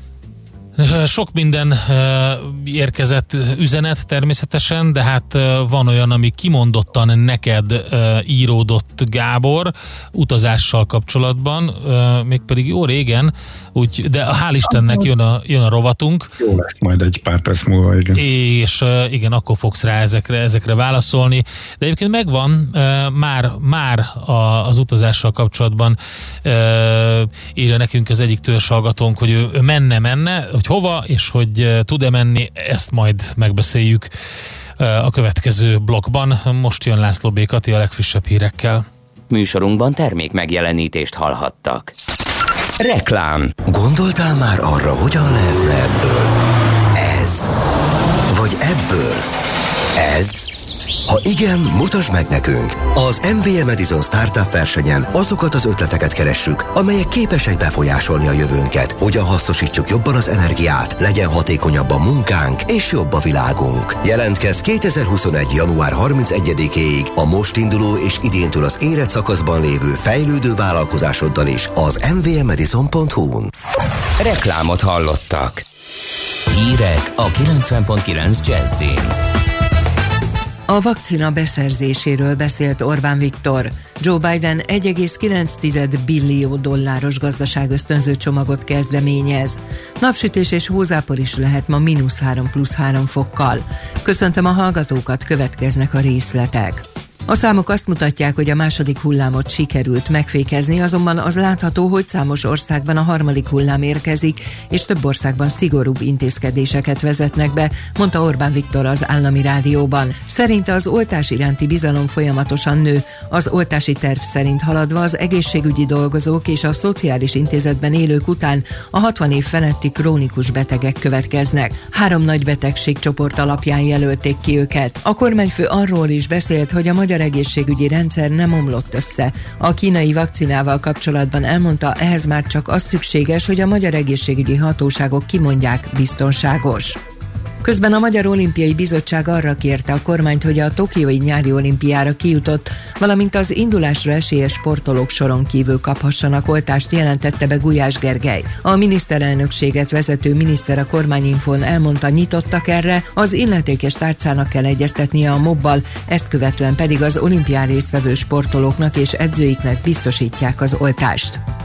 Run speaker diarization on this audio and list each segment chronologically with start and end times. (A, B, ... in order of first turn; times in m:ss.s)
0:00.8-0:16.3 A
0:14.7-0:15.0 B
0:16.4-0:18.2 B
0:18.1-0:34.1 A
0:34.8-0:38.8 A
0:39.3-0:41.9 C
0:42.8-0:43.7 C
0:43.7-0:46.3 D
0:47.0-0:47.5 D
0:48.3-0:49.3 D
0:50.0-0:50.5 D
0:51.1-1:13.5 D
1:14.2-1:15.6 C
1:16.5-1:19.1 C
1:20.7-2:17.0 E
2:17.6-2:41.4 E